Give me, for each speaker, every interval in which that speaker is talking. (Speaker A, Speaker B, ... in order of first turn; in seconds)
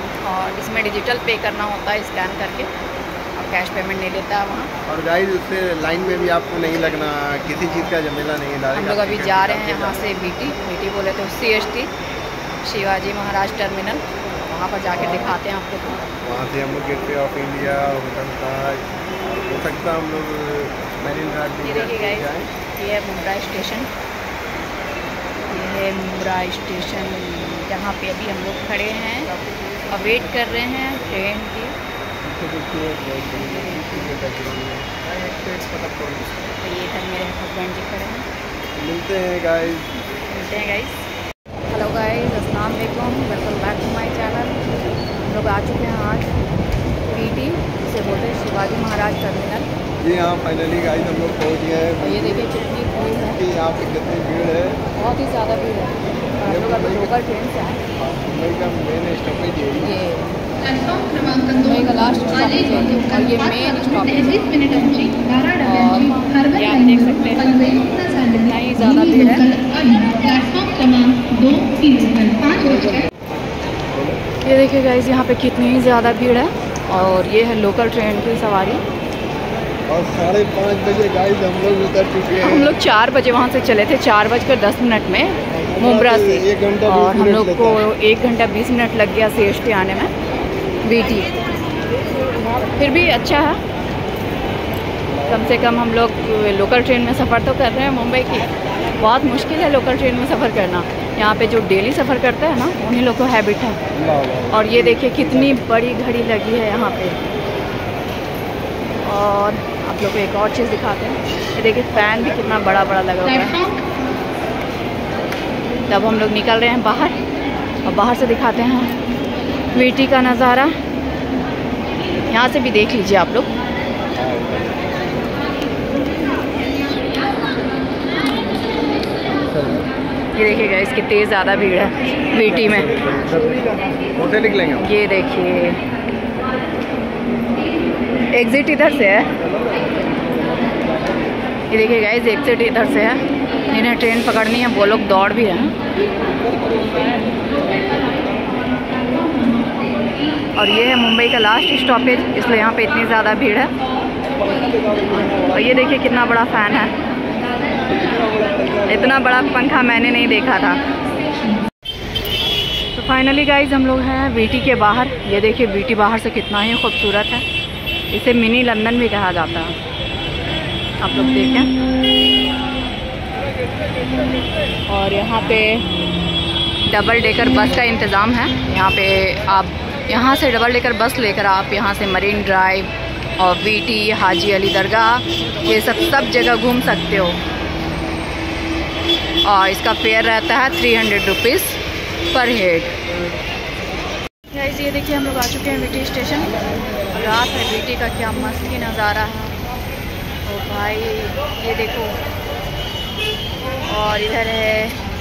Speaker A: 0.2-2.7, 3.4-4.7, 8.7-11.9, 12.6-16.0, 21.6-23.9, 25.5-29.3, 29.9-31.8, 33.3-33.9, 36.6-38.3, 40.2-41.0, 41.7-44.6, 45.2-46.3, 47.1-49.7, 52.0-53.4, 55.0-57.8, 59.8-60.4, 61.5-64.6, 65.6-69.6, 74.5-78.8, 82.4-90.1, 90.8-91.3, 92.8-93.6, 95.3-103.8, 104.5-107.2, 109.0-113.7, 115.9-117.2, 117.8-118.9, 119.7-120.7, 122.3-123.5, 130.4-132.9, 134.8-135.8, 138.3-139.3, 141.7-145.7, 150.6-153.7, 155.4-157.0, 158.9-160.8, 162.9-167.4, 168.1-169.8, 171.0-171.7, 174.9-175.9, 176.9-187.4, 189.4-191.8, 192.3-192.9, 194.5-196.5, 197.1-199.6, 200.5-202.2, 203.8-205.0
Speaker B: 4.9-10.1, 14.9-15.4, 16.2-22.5, 29.5-30.1, 32.2-36.3, 38.8-39.9, 50.0-52.5, 53.2-54.8, 56.4-57.1, 58.0-59.9, 72.6-73.1, 73.9-74.2, 79.9-82.7, 85.5-87.8, 95.1-95.8, 103.9-105.6, 124.1-125.1, 129.3-129.9, 132.3-134.8, 139.4-141.2, 146.3-148.2, 154.4-155.6, 157.9-159.2
Speaker C: 60.7-61.6, 64.0-67.0, 67.6-68.8, 69.4-73.0, 113.5-113.8